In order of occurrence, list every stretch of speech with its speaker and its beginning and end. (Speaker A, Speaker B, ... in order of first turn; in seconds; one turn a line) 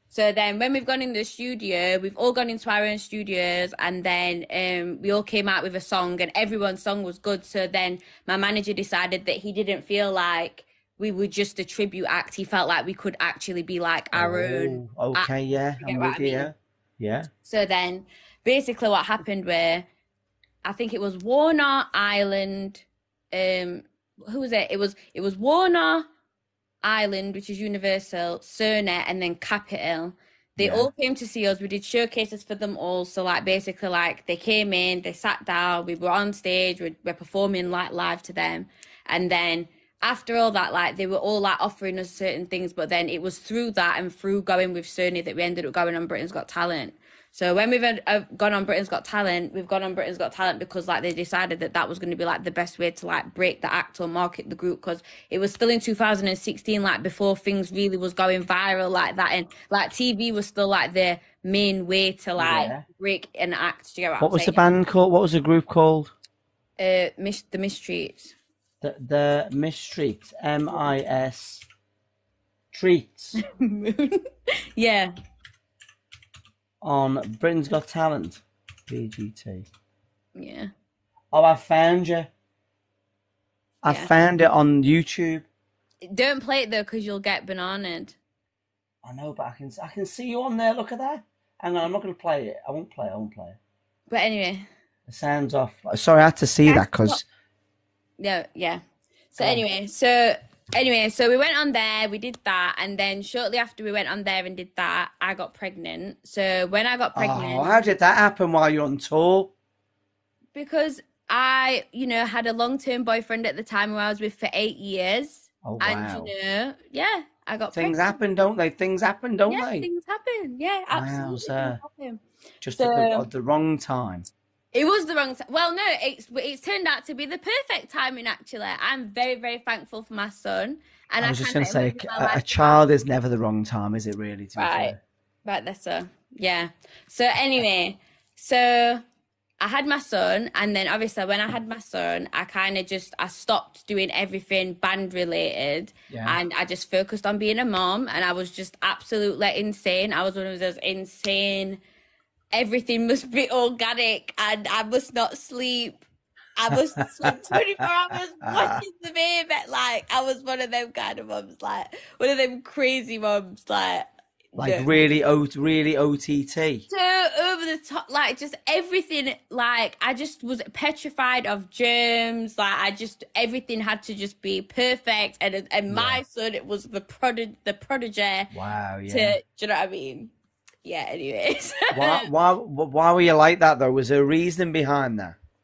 Speaker A: 0.1-16.5
Speaker B: 14.1-17.3
Speaker A: 17.4-19.9
Speaker A: 20.6-26.1
Speaker A: 26.8-64.6
Speaker B: 30.6-30.9
Speaker B: 62.4-62.8
Speaker B: 64.2-66.1
Speaker A: 66.8-68.3
Speaker B: 68.8-71.7
Speaker B: 72.7-73.4
Speaker A: 73.3-75.1
Speaker B: 76.8-79.7
Speaker A: 80.3-80.7
Speaker B: 81.3-82.3
Speaker B: 83.8-85.4
Speaker A: 83.8-84.1
Speaker A: 86.0-88.2
Speaker B: 89.0-93.6
Speaker A: 94.1-94.7
Speaker B: 95.1-97.2
Speaker A: 96.7-97.2
Speaker A: 98.2-98.8
Speaker A: 99.3-107.8
Speaker B: 99.4-99.6
Speaker B: 107.1-109.5
Speaker A: 110.5-118.2
Speaker B: 115.6-116.3
Speaker B: 117.7-119.9
Speaker A: 119.5-122.2
Speaker B: 120.9-121.8
Speaker B: 122.6-124.3
Speaker A: 122.8-123.3
Speaker A: 124.7-132.8
Speaker B: 131.2-135.0
Speaker A: 134.6-139.0
Speaker A: 139.6-151.8
Speaker B: 146.1-146.4
Speaker A: 152.5-156.0
Speaker A: 156.6-164.9
Speaker B: 157.2-157.6
Speaker B: 158.4-158.8
Speaker B: 164.6-166.8
Speaker A: 166.9-178.5
Speaker B: 175.9-176.2
Speaker B: 178.5-179.4
Speaker A: 179.1-180.3
Speaker A: 180.8-182.3
Speaker B: 181.9-185.4